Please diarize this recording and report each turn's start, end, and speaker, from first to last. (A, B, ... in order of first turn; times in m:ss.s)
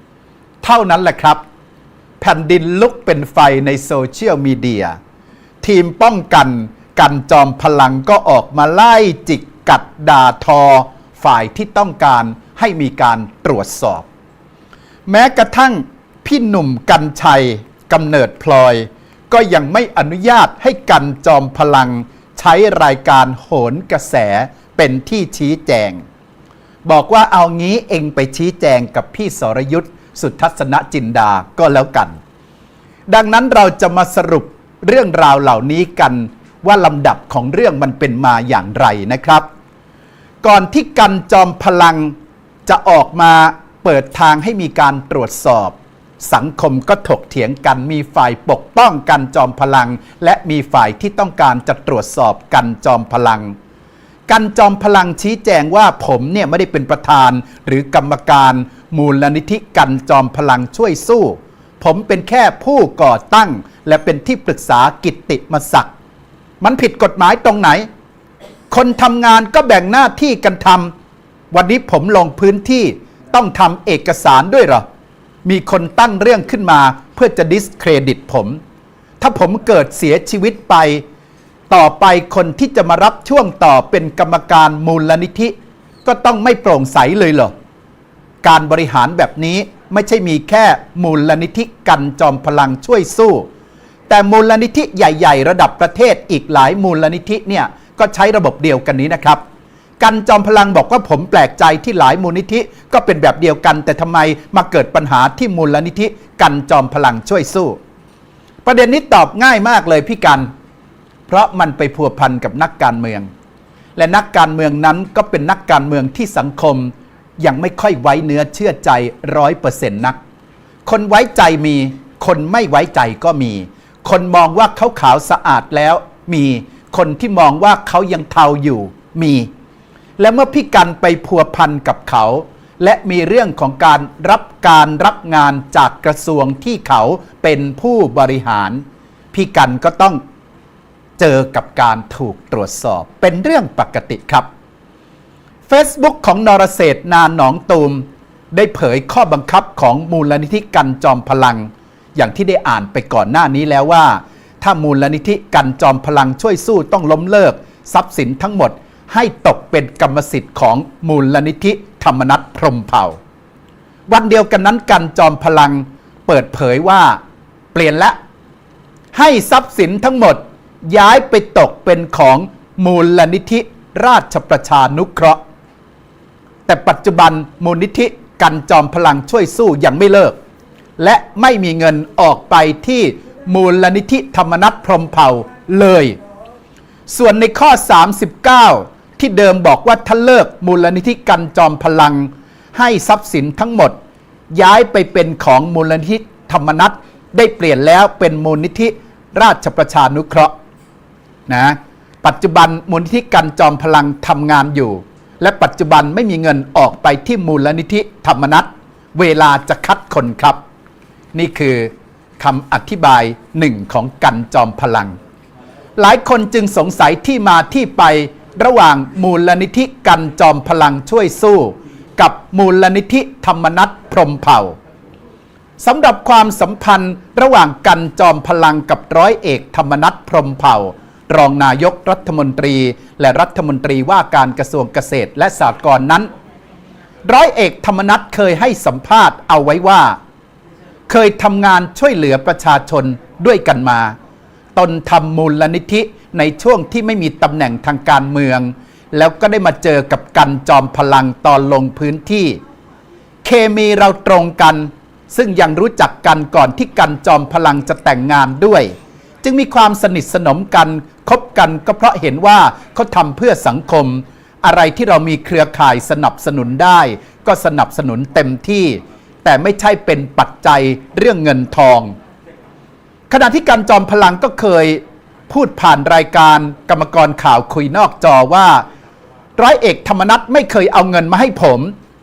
0:00.6-0:01.4 A
0:02.2-0:05.0 A
0:05.6-0:14.1 A
0:15.1-0:26.0 A
0:26.8-0:32.2 A
0:33.1-0:39.5 A
0:40.4-0:42.2 A
0:42.7-0:53.6 A
0:54.3-1:05.9 A
1:06.6-1:07.9 A
1:08.7-1:10.9 A
1:11.5-1:14.8 A
1:15.4-1:18.6 A
1:19.2-1:21.0 A
1:21.7-1:25.5 A
1:26.0-1:27.5 A
1:28.4-1:33.5 A
1:34.1-1:39.4 A
1:40.0-1:47.8 A
1:48.6-1:50.5 A
1:51.3-1:53.3 A
1:54.0-2:00.2 A
2:00.8-2:09.5 A
2:10.2-2:20.2 A
2:21.2-2:24.5 A
2:25.7-2:43.2 A
2:44.1-2:47.2 A
2:47.7-2:48.2 A
2:49.1-2:55.4 A
2:56.7-3:00.4 A
3:01.0-3:06.2 A
3:07.1-3:14.0 A
3:14.5-3:20.5 A
3:21.5-3:30.6 A
3:31.3-3:35.2 A
3:36.0-3:44.8 A
3:45.8-3:56.3 A
3:57.2-4:00.2 A
4:01.1-4:04.1 A
4:04.8-4:12.6 A
4:13.4-4:32.1 A
4:33.3-4:38.8 A
4:39.6-4:41.9 A